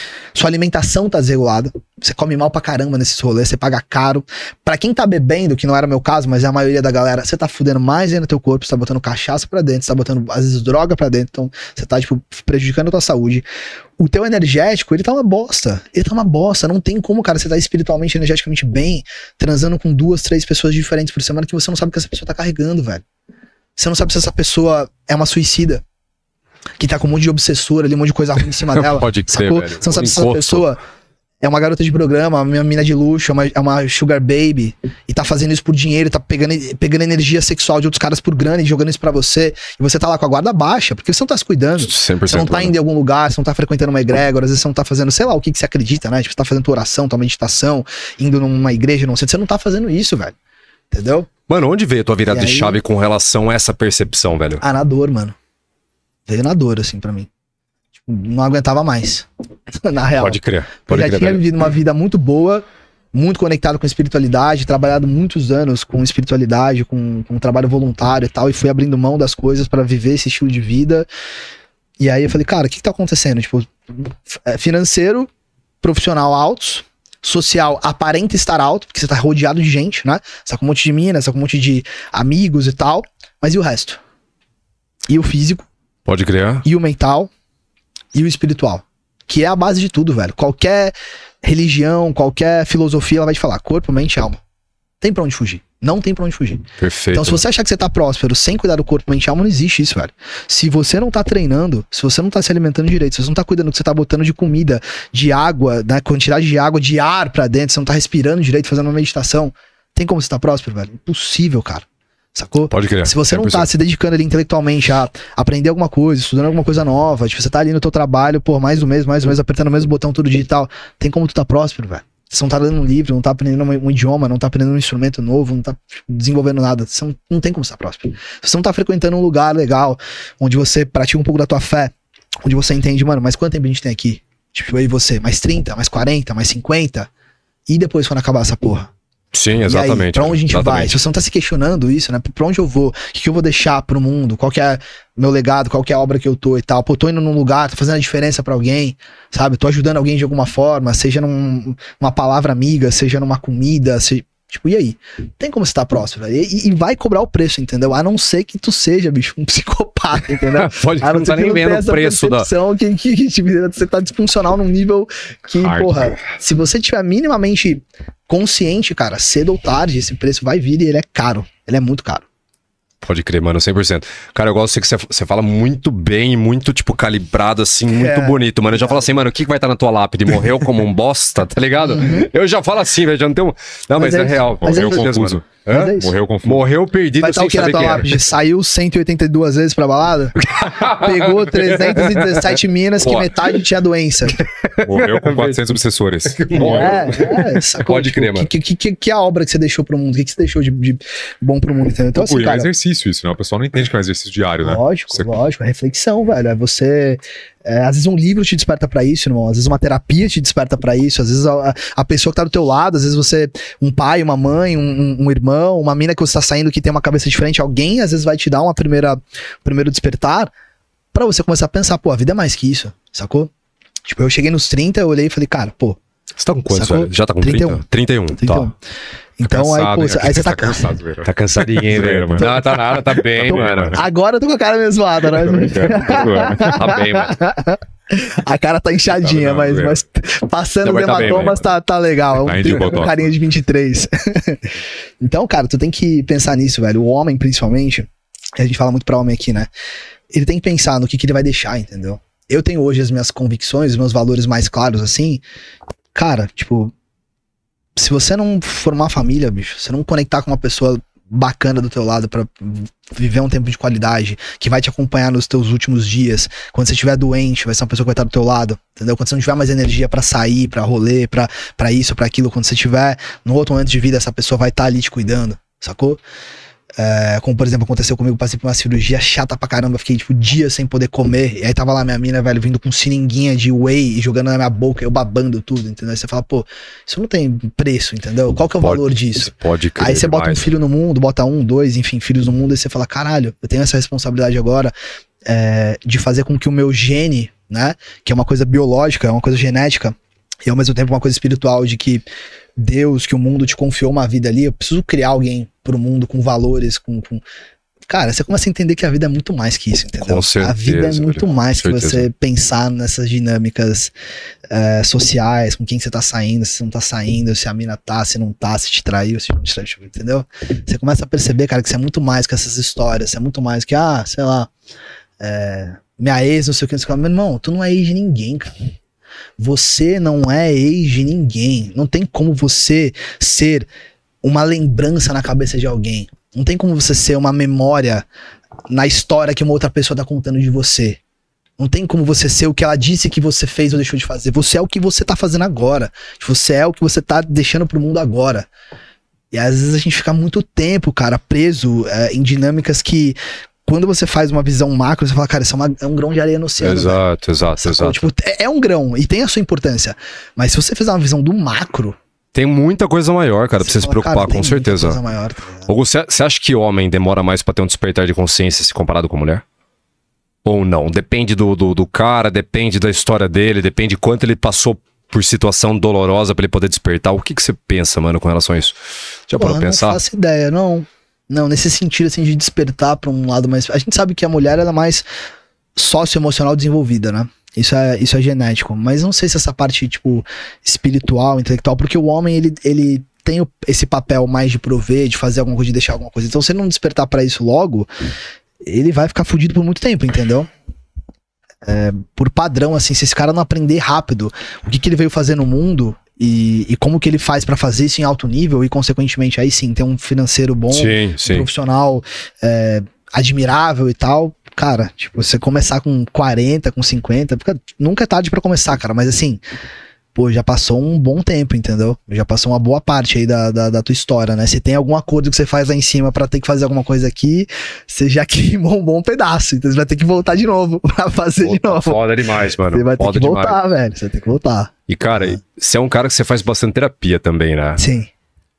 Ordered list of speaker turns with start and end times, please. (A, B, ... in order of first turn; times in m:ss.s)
0:00.3-0:13.5 A
0:14.0-0:23.0 A
0:23.8-0:25.8 A
0:26.8-0:30.8 A
0:28.7-0:30.7 B
0:31.4-0:50.4 A
0:41.8-0:42.8 B
0:50.9-0:51.3 A
0:51.5-0:54.6 B
0:52.3-0:52.8 A
0:54.6-0:55.4 A
0:56.3-0:57.3 A
0:58.0-0:59.3 A
0:59.8-1:11.1 A
1:00.2-1:01.4 B
1:12.0-1:15.3 A
1:15.8-1:24.0 A
1:25.1-1:25.7 A
1:26.1-1:26.6 B
1:26.6-1:27.3 A
1:28.1-1:34.4 A
1:35.0-2:17.1 A
1:36.8-1:37.4 B
1:52.7-1:53.7 B
2:17.7-2:18.9 A
2:19.3-2:21.0 B
2:19.7-2:52.2 A
2:40.5-2:42.5 B
2:45.6-2:46.2 C
2:53.0-3:08.2 B
2:57.9-2:59.1 A
3:01.8-3:02.3 A
3:04.0-3:05.1 A
3:04.6-3:06.7 C
3:05.7-3:06.1 A
3:07.2-3:14.4 A
3:10.4-3:13.5 B
3:14.4-3:18.5 B
3:14.8-3:17.3 C
3:16.6-3:22.7 A
3:22.2-3:25.4 C
3:24.6-3:40.5 A
3:41.1-3:43.5 A
3:44.0-3:46.0 A
3:46.4-3:48.7 B
3:46.7-3:47.8 A
3:48.4-3:48.8 A
3:49.4-3:50.9 A
3:49.5-3:50.4 B
3:49.8-3:54.0 C
3:51.2-3:54.0 B
3:53.5-4:09.7 A
3:55.3-3:57.0 C
3:56.6-3:57.4 B
3:59.2-4:00.0 C
4:00.8-4:01.6 B
4:02.4-4:03.3 C
4:10.3-4:15.4 A
4:16.1-4:16.9 A
4:18.0-4:36.2 A
4:37.0-4:54.9 A
4:48.8-4:50.7 B
4:55.4-5:07.4 A
5:08.1-5:14.1 A
5:10.2-5:12.3 B
5:14.7-5:24.7 A
5:25.4-5:28.9 A
5:29.6-5:33.9 A
5:34.4-5:38.3 A
5:38.9-5:41.2 A
5:41.8-5:48.7 A
5:49.5-5:57.2 A
5:56.8-5:58.3 B
5:57.8-6:02.2 A
6:02.5-6:05.2 B
6:03.8-6:05.9 A
6:05.8-6:09.6 B
6:10.6-6:20.2 B
6:19.5-6:25.2 A
6:26.0-6:38.1 A
6:38.8-6:40.7 A
6:41.8-6:59.6 A
6:50.9-6:51.7 B
7:00.4-7:12.2 A
7:11.6-7:13.8 B
7:12.9-7:15.6 A
7:15.1-7:18.0 B
7:18.0-7:18.3 A